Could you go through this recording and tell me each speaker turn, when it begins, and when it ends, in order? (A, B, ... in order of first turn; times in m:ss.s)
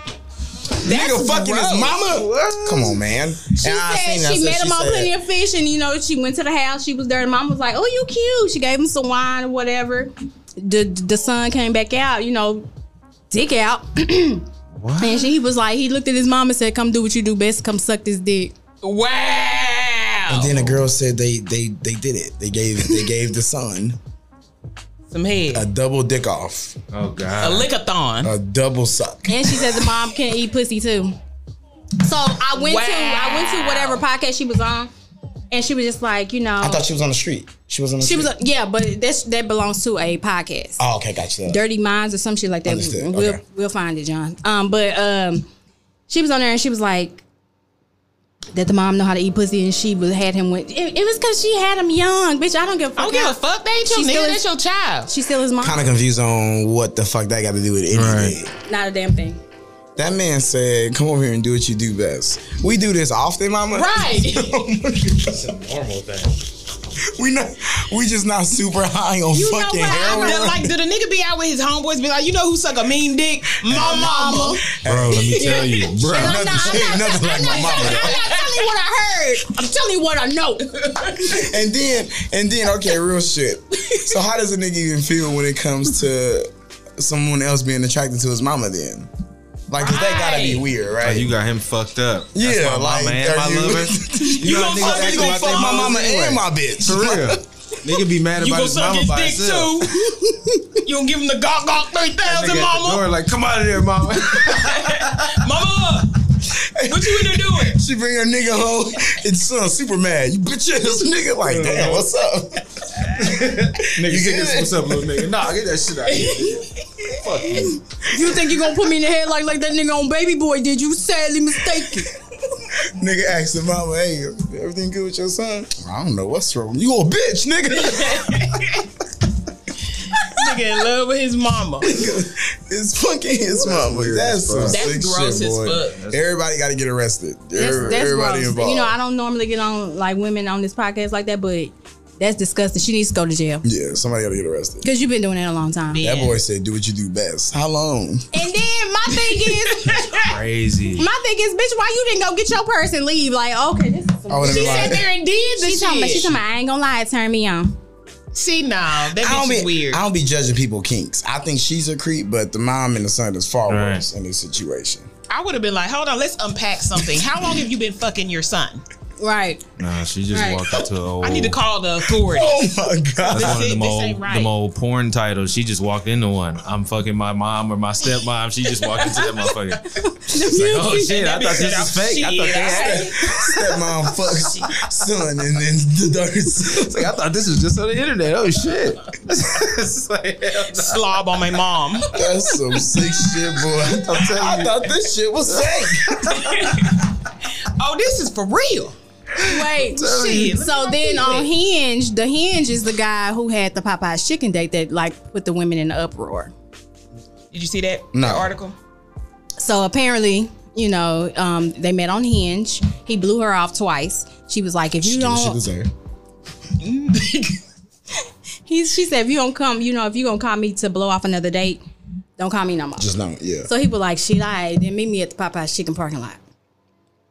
0:00.8-0:02.0 A
0:00.8-0:05.1 B
0:02.1-0:03.0 C
0:03.6-0:12.7 D
0:13.3-0:14.4 D
0:14.8-0:15.3 C
0:15.0-0:18.5 D
0:18.8-0:20.7 A
0:20.3-0:24.0 B
0:25.1-0:25.6 A
0:25.5-0:26.8 B
0:26.9-0:27.7 C
0:27.4-0:28.3 A
0:28.2-0:29.6 B
0:29.3-0:31.1 D
0:32.0-0:34.9 D
0:32.6-0:34.0 A
0:35.5-0:36.8 D
0:36.6-0:38.3 B
0:38.0-0:40.8 D
0:40.8-0:41.6 B
0:41.5-0:45.5 D
0:42.6-0:43.4 B
0:46.1-0:47.2 D
0:48.5-0:54.4 D
0:53.0-0:55.1 A
0:55.1-0:55.8 D
0:55.6-0:58.5 B
0:57.9-0:58.4 C
0:58.6-0:59.4 D
1:00.0-1:05.5 B
1:03.7-1:04.6 A
1:05.2-1:06.4 C
1:07.1-1:10.7 B
1:09.3-1:10.5 D
1:09.9-1:15.8 A
1:13.6-1:15.6 B
1:13.8-1:14.6 D
1:14.9-1:16.7 C
1:15.4-1:20.7 D
1:16.1-1:18.2 B
1:17.0-1:18.7 A
1:20.9-1:21.3 A
1:21.2-1:29.1 B
1:29.7-1:31.3 B
1:29.8-1:30.6 A
1:31.0-1:39.8 C
1:32.3-1:37.4 B
1:34.3-1:36.3 A
1:38.4-1:40.0 A
1:40.8-1:43.1 A
1:42.2-1:45.5 C
1:44.3-1:47.8 A
1:46.4-1:53.2 B
1:51.4-1:52.1 C
1:53.1-1:57.8 C
1:53.8-1:55.2 B
1:56.1-1:57.2 A
1:58.0-2:02.1 D
2:02.8-2:08.5 B
2:07.7-2:08.9 A
2:10.0-2:12.0 A
2:11.8-2:18.9 B
2:13.6-2:14.9 C
2:14.6-2:16.0 A
2:17.6-2:23.6 D
2:23.6-2:24.9 B
2:24.8-2:26.0 D
2:25.9-2:26.4 A
2:26.0-2:28.3 B
2:28.3-2:30.2 D
2:29.2-2:30.3 A
2:30.2-2:31.1 C
2:30.9-2:37.8 D
2:34.3-2:35.1 B
2:34.4-2:36.4 A
2:38.3-2:40.0 A
2:39.2-2:45.1 B
2:43.7-2:44.0 C
2:45.3-2:48.8 A
2:49.2-2:49.6 D
2:49.8-2:51.6 C
2:50.3-2:50.6 D
2:51.2-2:52.7 A
2:52.2-2:53.7 B
2:53.3-2:54.5 A
2:53.3-3:03.6 C
3:00.0-3:01.2 D
3:00.9-3:03.1 A
3:02.8-3:07.1 B
3:06.6-3:11.0 C
3:10.7-3:12.1 A
3:12.1-3:16.5 B
3:13.9-3:14.8 C
3:15.5-3:16.9 C
3:16.3-3:18.9 A
3:19.4-3:20.6 C
3:19.4-3:26.5 D
3:20.0-3:21.5 A
3:27.5-3:28.7 A
3:28.1-3:28.5 B
3:29.6-3:35.6 D
3:35.0-3:35.9 B
3:36.8-3:37.6 A
3:38.6-3:41.8 D
3:42.4-3:43.1 D
3:43.0-3:43.7 B
3:43.6-3:46.4 D